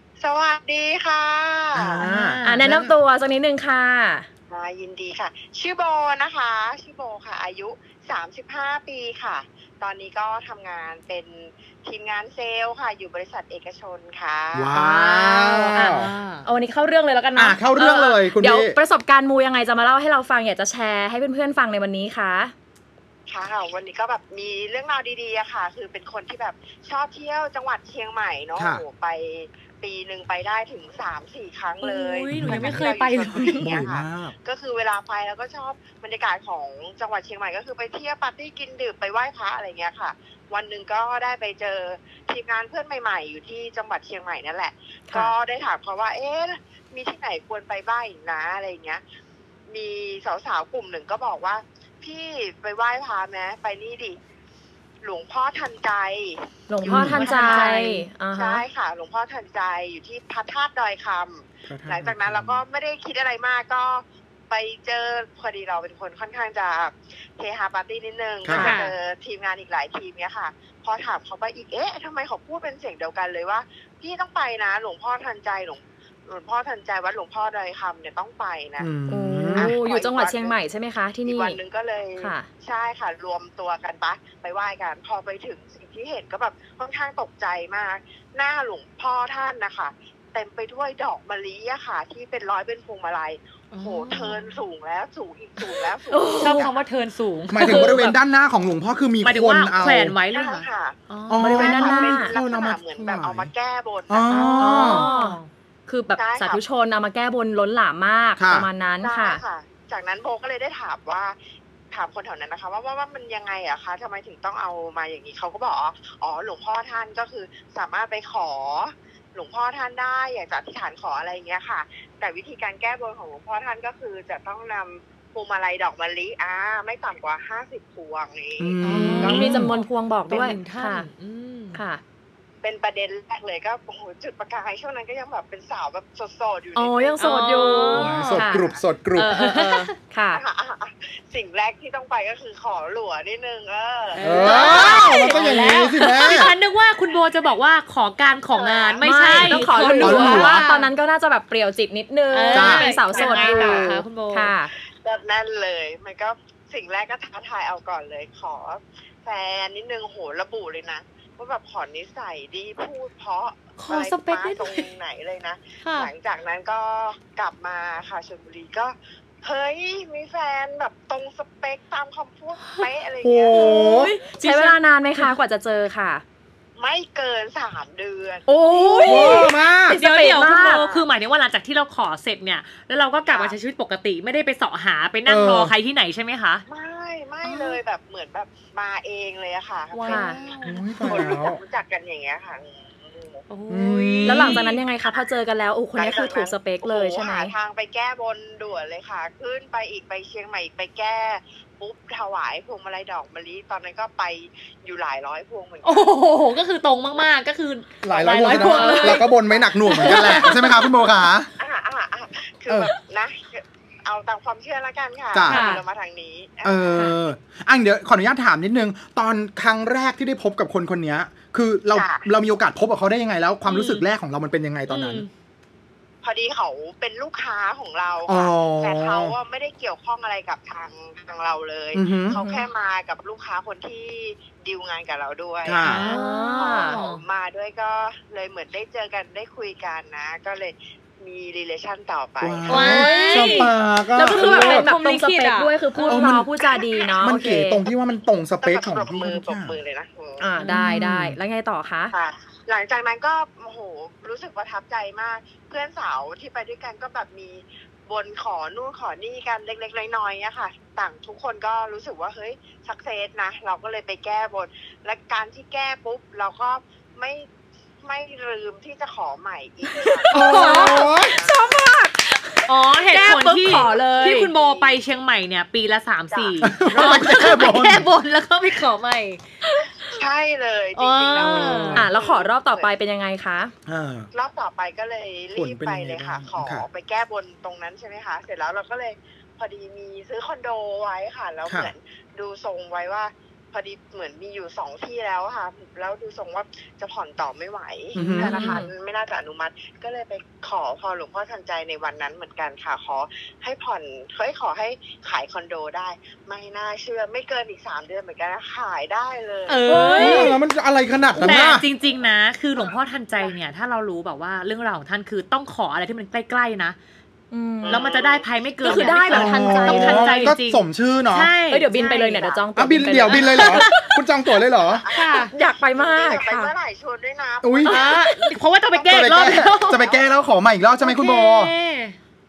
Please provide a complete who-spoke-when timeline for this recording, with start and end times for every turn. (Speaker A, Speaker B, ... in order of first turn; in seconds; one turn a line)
Speaker A: 0.2-2.0
Speaker B: 1.7-2.9
Speaker C: 2.0-2.6
Speaker D: 2.4-4.3
Speaker A: 4.5-14.8
Speaker B: 14.5-16.1
Speaker D: 14.7-22.5
Speaker C: 15.7-16.5
Speaker B: 17.4-18.8
Speaker A: 23.3-49.0
Speaker B: 28.6-28.8
Speaker C: 31.8-33.7
Speaker B: 32.3-32.9
Speaker B: 33.6-34.3
Speaker A: 49.7-54.2
Speaker A: 55.0-56.5
Speaker D: 56.7-58.6
Speaker B: 56.8-57.3
Speaker C: 56.8-58.1
Speaker A: 57.2-57.8
Speaker A: 58.3-78.9
Speaker B: 61.7-62.6
Speaker B: 68.4-68.7
Speaker D: 68.5-68.8
Speaker C: 68.6-68.9
Speaker B: 78.8-79.7
Speaker D: 79.1-81.6
Speaker A: 79.5-80.5
Speaker A: 81.2-96.8
Speaker D: 82.2-82.5
Speaker C: 93.7-94.5
Speaker D: 96.1-96.7
Speaker C: 96.4-98.1
Speaker B: 97.5-100.2
Speaker D: 97.5-98.1
Speaker C: 99.2-101.5
Speaker A: 100.3-105.0
Speaker B: 101.3-103.5
Speaker D: 101.4-102.3
Speaker B: 104.1-105.1
Speaker C: 104.3-105.5
Speaker D: 104.6-109.4
Speaker A: 106.2-106.6
Speaker B: 108.4-108.7
Speaker A: 109.0-111.3
Speaker A: 111.9-129.5
Speaker B: 128.6-129.7
Speaker C: 128.8-131.8
Speaker D: 129.2-131.1
Speaker D: 131.7-132.0
Speaker A: 132.6-138.8
Speaker D: 136.7-140.4
Speaker C: 137.2-138.3
Speaker B: 137.9-139.4
Speaker C: 139.2-139.9
Speaker A: 140.3-145.4
Speaker C: 144.1-150.9
Speaker B: 144.2-146.5
Speaker D: 144.4-146.1
Speaker A: 148.5-150.4
Speaker D: 149.0-154.7
Speaker B: 150.0-150.7
Speaker C: 152.3-154.5
Speaker B: 152.5-152.9
Speaker A: 153.1-153.9
Speaker A: 154.8-174.0
Speaker C: 163.8-164.9
Speaker C: 165.8-166.1
Speaker C: 172.6-172.9
Speaker B: 173.2-174.2
Speaker D: 173.5-176.2
Speaker C: 174.2-175.3
Speaker A: 176.8-179.5
Speaker D: 178.5-180.8
Speaker B: 179.0-180.0
Speaker C: 179.9-186.6
Speaker A: 180.4-181.1
Speaker A: 183.3-183.6
Speaker B: 185.2-185.7
Speaker A: 186.7-193.4
Speaker C: 187.4-187.8
Speaker C: 189.9-191.2
Speaker D: 190.1-190.4
Speaker B: 190.6-191.6
Speaker C: 193.5-194.8
Speaker B: 193.7-194.6
Speaker D: 194.2-197.5
Speaker A: 195.0-195.3
Speaker A: 195.9-206.1
Speaker C: 205.8-209.3
Speaker B: 208.0-211.5
Speaker A: 208.2-210.8
Speaker D: 208.4-209.2
Speaker C: 209.9-210.7
Speaker D: 209.9-210.5
Speaker A: 211.6-217.0
Speaker B: 212.7-212.9
Speaker B: 215.3-215.7
Speaker C: 215.5-215.8
Speaker B: 216.6-225.2
Speaker A: 221.9-222.3
Speaker C: 223.7-224.1
Speaker C: 224.9-225.3
Speaker A: 226.2-243.4
Speaker B: 228.3-229.3
Speaker B: 231.9-232.4
Speaker B: 235.6-236.0
Speaker C: 235.8-237.2
Speaker D: 235.8-237.0
Speaker B: 242.4-244.9
Speaker C: 242.7-243.8
Speaker D: 242.9-243.6
Speaker D: 244.1-247.8
Speaker C: 244.3-246.4
Speaker B: 246.1-246.5
Speaker A: 247.0-247.4
Speaker B: 247.2-249.8
Speaker A: 248.6-250.5
Speaker D: 250.4-252.1
Speaker B: 250.7-251.4
Speaker A: 252.1-267.5
Speaker A: 268.0-271.8
Speaker D: 270.0-274.5
Speaker B: 270.3-271.4
Speaker C: 270.4-271.1
Speaker C: 272.7-279.4
Speaker A: 273.6-274.9
Speaker A: 276.3-277.5
Speaker B: 276.6-278.1
Speaker A: 280.1-283.0
Speaker C: 280.9-282.1
Speaker B: 281.3-282.1
Speaker D: 281.9-283.7
Speaker B: 283.9-284.3
Speaker A: 284.3-309.8
Speaker B: 285.5-286.9
Speaker B: 291.6-291.9
Speaker B: 298.1-298.6
Speaker D: 298.2-298.9
Speaker C: 309.7-310.6
Speaker D: 309.9-310.6
Speaker B: 310.1-311.9
Speaker C: 311.4-317.0
Speaker A: 311.4-311.7
Speaker A: 312.7-313.6
Speaker D: 317.5-318.1
Speaker A: 317.8-319.3
Speaker C: 317.9-321.9
Speaker D: 318.8-320.5
Speaker B: 319.3-321.5
Speaker D: 321.7-324.2
Speaker A: 321.9-322.6
Speaker B: 322.8-325.1
Speaker C: 323.3-324.1
Speaker A: 324.8-328.1
Speaker C: 325.1-325.5
Speaker D: 325.3-326.7
Speaker B: 327.6-328.0
Speaker D: 327.9-328.5
Speaker C: 327.9-330.0
Speaker A: 328.8-330.3
Speaker B: 329.1-331.7
Speaker C: 331.0-332.2